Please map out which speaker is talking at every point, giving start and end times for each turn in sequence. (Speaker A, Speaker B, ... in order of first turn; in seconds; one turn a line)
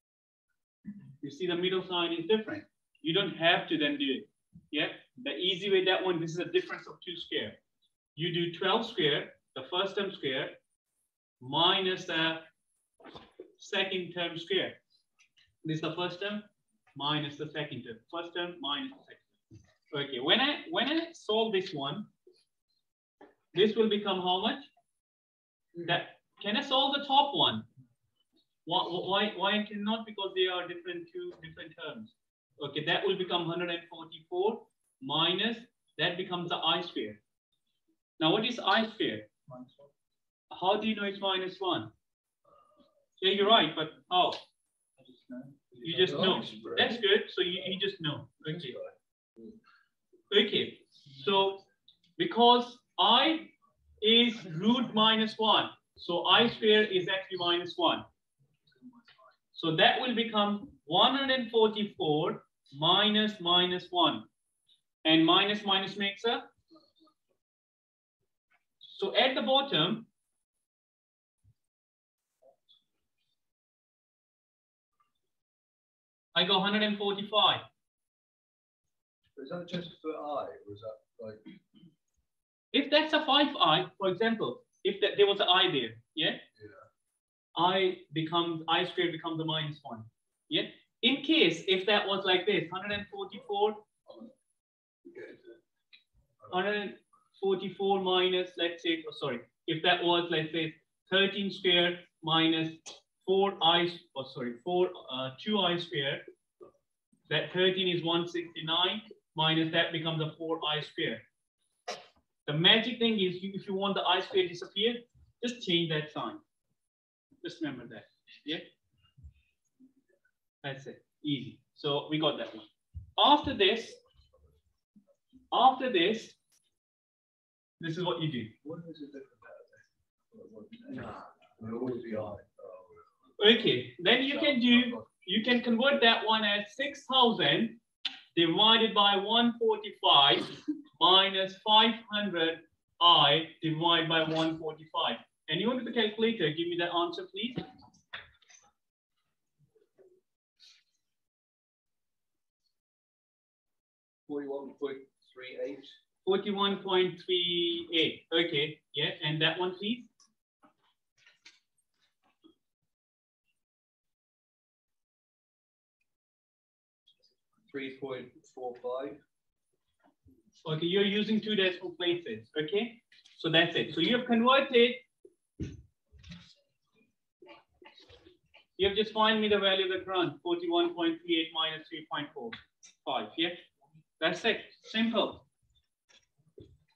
Speaker A: 1.2-7.6
Speaker A: 8.1-10.6
Speaker A: 11.4-12.4
Speaker A: 13.6-14.8
Speaker A: 15.6-19.2
Speaker A: 19.9-22.1
Speaker A: 23.5-24.7
Speaker A: 25.8-27.6
Speaker A: 28.6-37.2
Speaker A: 38.2-39.3
Speaker A: 40.5-41.9
Speaker A: 43.2-44.4
Speaker B: 45.2-46.9
Speaker A: 45.8-48.8
Speaker A: 50.3-51.6
Speaker A: 52.2-58.0
Speaker A: 59.5-64.2
Speaker A: 65.0-66.5
Speaker A: 68.8-70.1
Speaker A: 76.3-77.6
Speaker B: 79.3-81.5
Speaker A: 82.7-86.4
Speaker A: 87.5-93.8
Speaker A: 96.5-106.2
Speaker A: 107.3-111.2
Speaker A: 112.5-116.4
Speaker A: 117.4-118.6
Speaker A: 120.6-124.0
Speaker A: 125.5-126.3
Speaker A: 127.8-128.5
Speaker B: 128.6-129.8
Speaker B: 130.3-133.0
Speaker A: 133.4-137.8
Speaker B: 134.6-135.0
Speaker A: 138.3-147.7
Speaker B: 154.3-155.9
Speaker A: 156.2-160.1
Speaker B: 167.7-169.2
Speaker A: 170.6-175.0
Speaker A: 178.8-183.6
Speaker A: 184.2-185.4